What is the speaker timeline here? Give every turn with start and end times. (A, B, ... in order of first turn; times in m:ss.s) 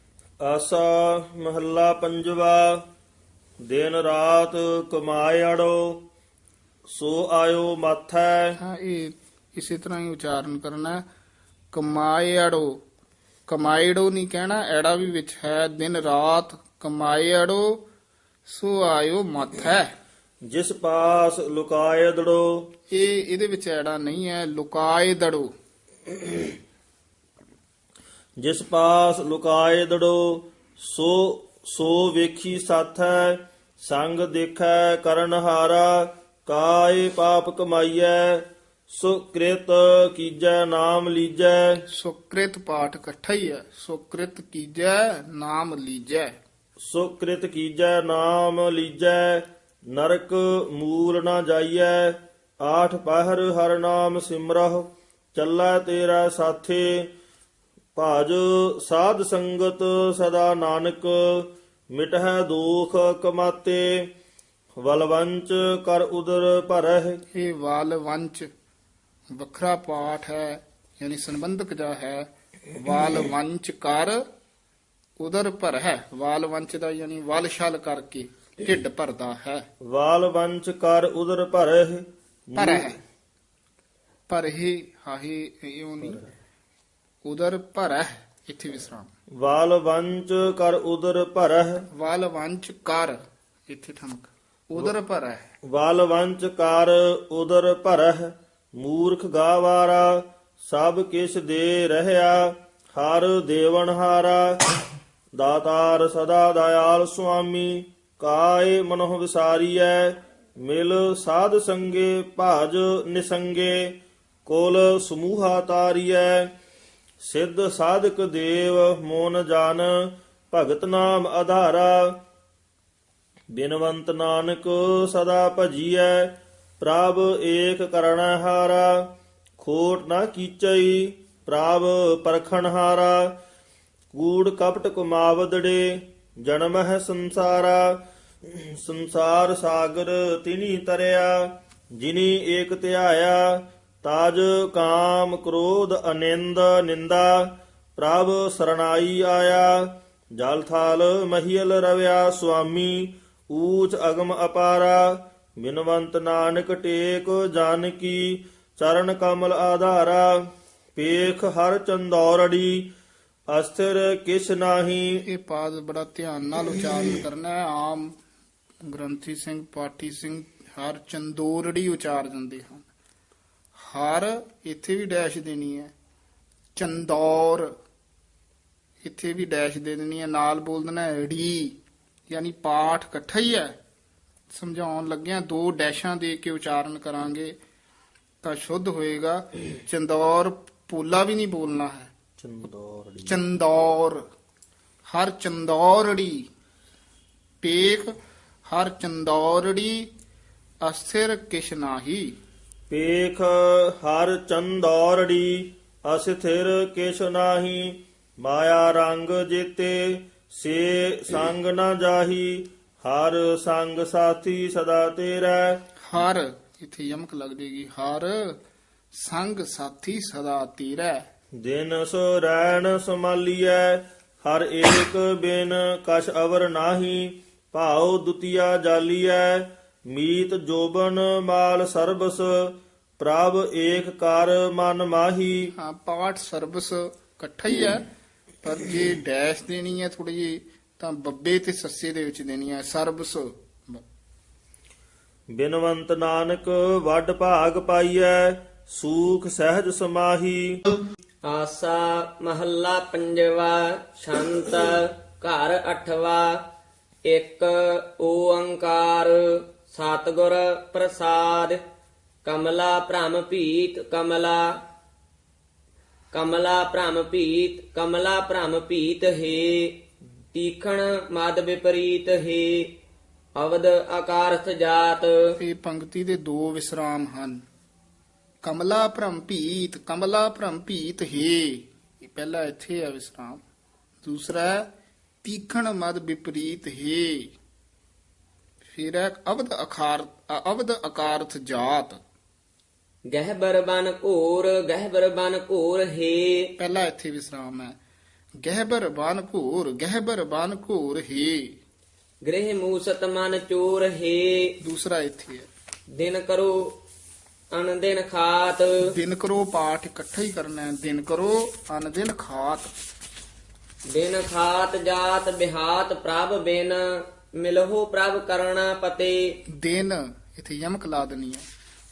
0:00.4-0:02.8 A
0:03.6-0:06.0 A
0:06.9-0:08.5 A
0:08.6-0:11.0 B
0:11.7-0:12.8 B
0:13.5-0:17.8 B
0:18.5-0:19.9 B
0:20.5-0:22.7 A
0:22.9-0:25.5 B
0:28.4-0:41.8 A
0:41.9-0:46.3 B
0:46.8-0:57.1 A
0:58.0-1:04.0 A
1:04.8-1:07.2 A
1:07.3-1:08.5 B
1:09.3-1:14.2 B
1:15.2-1:19.6 B
1:19.8-1:22.9 A
1:22.5-1:23.0 B
1:24.3-1:26.2 B
1:27.2-1:29.1 B
1:29.4-1:31.8 A
1:31.9-1:35.5 B
1:35.7-1:44.6 A
1:45.4-1:56.5 A
1:57.2-2:02.2 A
2:03.5-2:09.1 A
2:09.6-2:13.3 A
2:14.1-2:17.9 A
2:18.4-2:21.4 A
2:21.9-2:29.8 A
2:30.4-2:40.3 A
2:41.0-2:42.8 A
2:43.5-2:45.2 A
2:45.2-2:48.1 B
2:48.8-2:52.8 B
2:53.8-2:55.9 B
2:56.8-2:57.7 B
2:59.0-3:01.8 B
3:02.3-3:03.7 B
3:04.5-3:07.6 B
3:08.4-3:12.1 B
3:12.4-3:13.4 A
3:13.2-3:14.2 B
3:15.1-3:16.5 B
3:17.6-3:18.1 B
3:18.7-3:20.1 B
3:20.8-3:22.3 B
3:22.9-3:35.8 A
3:36.0-3:38.6 B
3:39.1-3:41.2 B
3:41.6-3:55.6 A
3:55.8-3:58.0 B
3:58.6-4:04.0 B
4:05.5-4:10.8 A
4:11.4-4:16.6 C
4:17.2-4:21.8 C
4:22.4-4:24.8 C
4:26.3-4:30.0 C
4:30.5-4:33.0 C
4:33.6-4:35.6 C
4:35.6-4:37.6 B
4:38.6-4:43.6 B
4:44.2-4:44.9 B
4:45.4-4:47.5 B
4:48.8-4:52.2 B
4:53.3-4:56.7 C
4:56.8-4:58.0 B
4:58.6-5:01.7 B
5:02.4-5:04.7 C
5:04.8-5:05.7 B
5:06.2-5:07.0 C
5:07.7-5:09.0 C
5:09.1-5:12.9 B
5:14.1-5:19.6 C
5:19.8-5:21.6 B